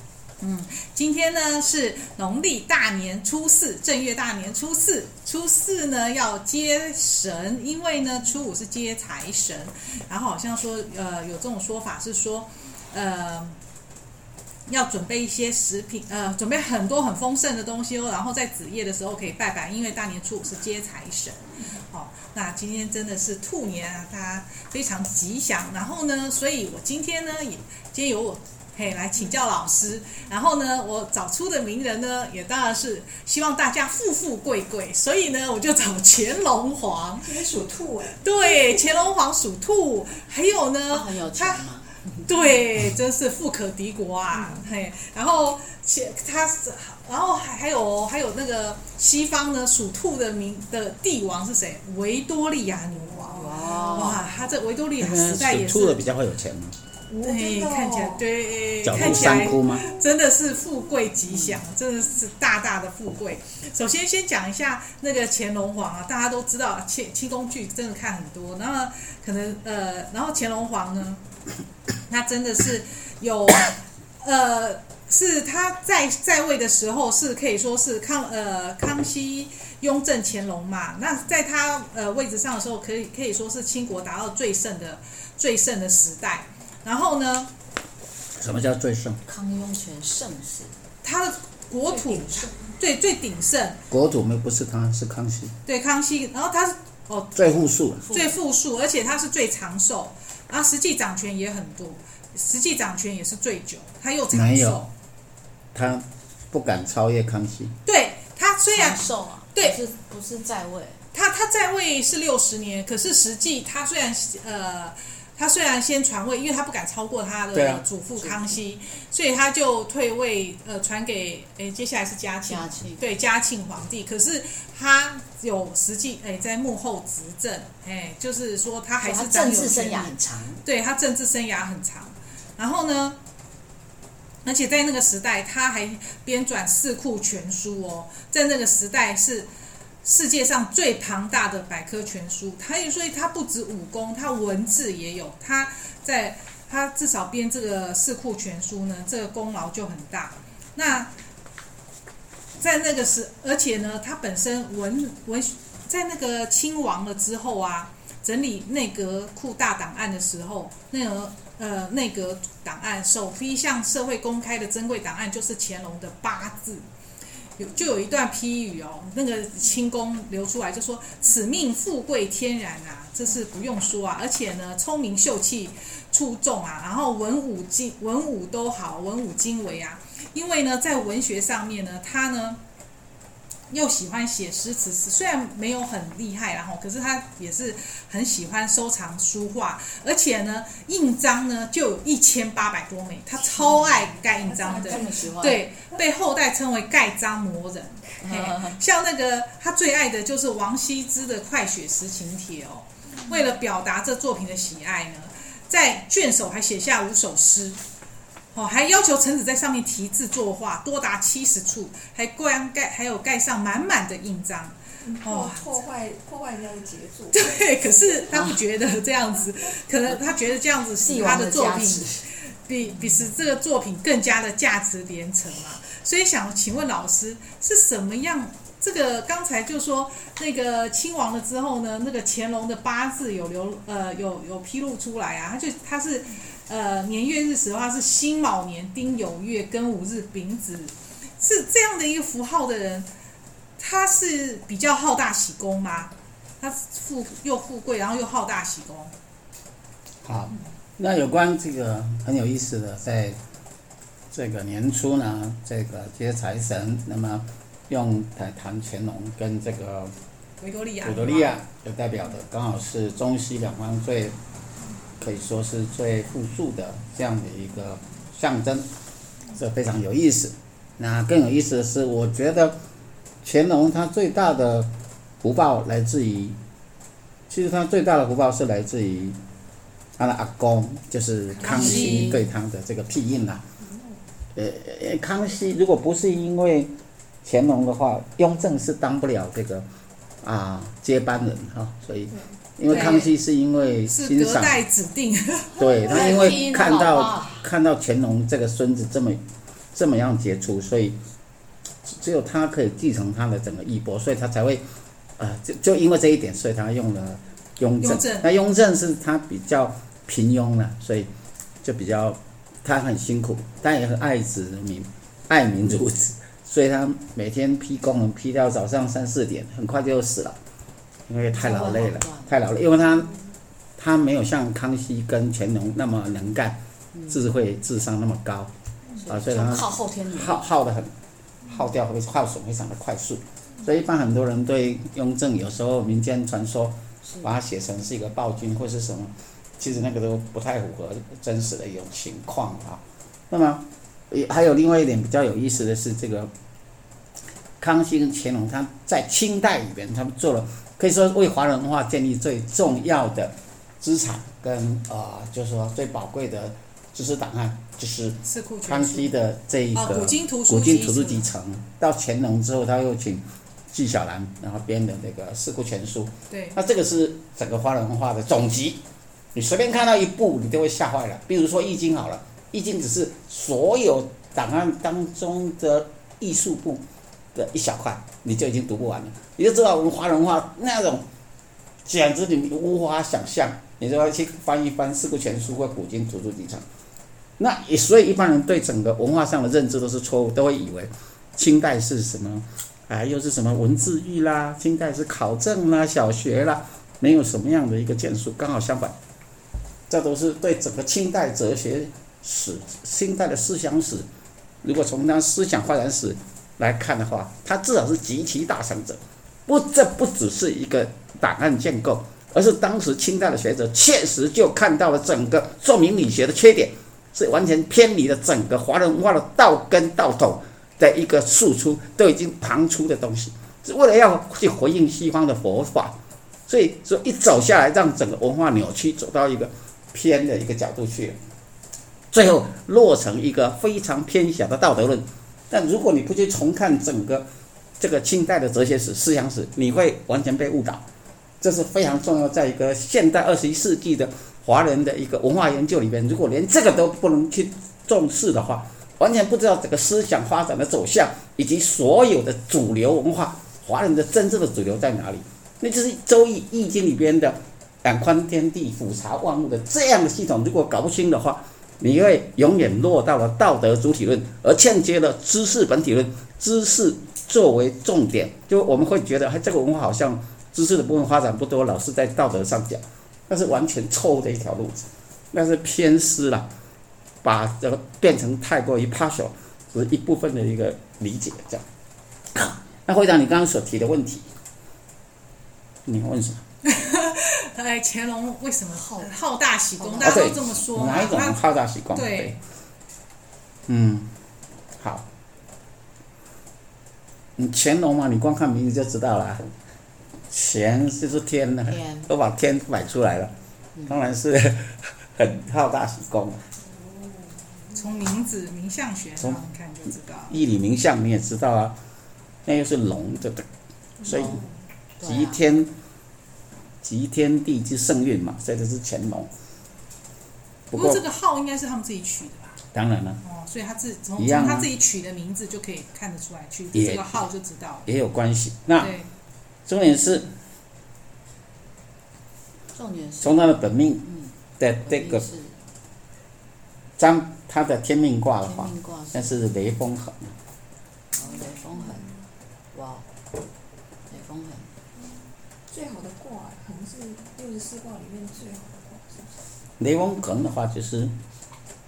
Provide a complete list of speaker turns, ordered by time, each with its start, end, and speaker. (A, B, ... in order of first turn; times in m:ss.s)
0:00.4-0:13.6 A
0:14.7-0:37.4 A
0:37.2-0:38.8 B
0:38.1-0:41.7 A
0:40.9-0:41.9 C
0:42.2-0:56.0 A
0:44.3-0:44.6 B
0:52.9-0:54.1 B
0:53.3-0:54.2 C
0:55.0-0:56.8 D
0:57.1-0:58.2 B
0:57.2-1:11.2 A
0:58.8-0:59.8 D
0:58.9-1:00.0 B
1:12.1-1:27.5 A
1:28.4-1:29.2 D
1:29.3-1:30.7 C
1:31.0-1:33.8 A
1:31.8-1:32.7 B
1:33.9-1:35.5 D
1:35.6-1:37.6 A
1:37.3-1:38.1 D
1:38.1-1:44.9 A
1:44.3-1:44.8 D
1:45.7-1:47.7 D
1:47.8-1:49.8 A
1:48.7-1:51.0 C
1:51.1-2:13.2 A
1:57.5-1:57.8 D
1:58.2-1:58.5 C
2:02.5-2:03.0 C
2:09.0-2:10.6 C
2:14.4-2:19.5 A
2:20.0-2:31.1 A
2:32.6-2:46.8 A
2:47.6-3:02.6 A
3:03.7-3:27.8 A
3:13.8-3:15.3 B
3:14.6-3:15.6 C
3:18.2-3:18.8 C
3:28.5-3:35.6 A
3:35.0-3:38.0 B
3:37.3-4:03.1 A
3:41.0-3:42.2 C
4:03.8-4:09.1 A
4:10.2-4:13.4 D
4:14.3-4:20.1 D
4:20.6-4:21.6 A
4:21.0-4:24.4 D
4:25.2-4:28.9 D
4:29.5-4:32.8 D
4:33.4-4:34.9 D
4:35.4-4:36.6 D
4:37.5-4:39.4 D
4:40.2-4:43.6 D
4:41.5-4:42.3 B
4:41.6-4:42.4 A
4:41.6-4:42.4 C
4:43.8-4:44.2 B
4:44.5-4:46.9 D
4:47.4-4:49.8 D
4:50.4-4:54.8 D
4:52.3-4:52.6 B
4:52.9-4:53.3 A
4:54.1-4:55.8 A
4:55.8-4:59.4 D
4:56.0-4:57.7 C
4:59.9-5:01.2 D
5:02.1-5:04.8 D
5:05.4-5:11.3 D
5:08.0-5:08.5 A
5:11.8-5:20.6 D
5:21.3-5:23.3 D
5:21.5-5:22.5 C
5:24.0-5:28.7 D
5:29.2-5:30.7 C
5:29.3-5:31.1 D
5:31.6-5:46.5 D
5:47.8-6:09.0 D
5:58.4-5:59.3 A
5:59.9-6:01.5 A
6:06.5-6:06.8 A
6:09.5-6:21.2 D
6:22.0-6:26.8 D
6:27.6-6:39.1 D
6:40.1-6:44.2 D
6:44.8-7:06.2 D
7:06.7-7:11.4 D
7:12.3-7:17.4 D
7:18.0-7:21.0 D
7:21.6-7:56.7 D
7:57.4-8:01.8 D
8:02.5-8:04.4 D
8:06.0-8:06.6 D
8:06.8-8:11.6 A
8:08.9-8:09.3 C
8:10.0-8:10.4 C
8:10.2-8:12.5 D
8:12.1-8:12.6 A
8:13.9-8:14.3 D
8:15.0-8:15.2 D
8:17.6-8:19.6 D
8:20.5-8:23.5 D
8:21.9-8:22.3 C
8:24.0-8:26.6 D
8:27.0-8:28.0 B
8:28.0-8:30.6 A
8:30.5-8:32.0 D
8:32.6-8:33.6 D
8:34.2-8:34.6 C
8:34.2-8:34.6 D
8:34.3-8:34.6 B
8:35.2-8:35.6 C
8:35.2-8:35.9 D
8:37.0-8:39.5 D
8:40.9-8:41.2 D
8:40.9-8:42.8 A
8:42.9-8:43.4 D
8:43.4-8:48.1 A
8:44.4-8:44.9 D
8:46.9-8:47.4 D
8:48.0-8:49.1 D
8:49.0-8:49.3 A
8:49.8-8:50.5 D
8:52.9-8:54.5 C
8:53.4-8:54.2 D
8:54.8-8:55.4 D
8:55.0-8:55.8 C
8:57.2-9:00.5 D
8:58.6-8:59.5 C
9:01.3-9:02.3 C
9:01.5-9:02.2 B
9:02.9-9:03.2 C
9:04.3-9:04.9 C
9:05.9-9:09.5 B
9:10.0-9:11.3 D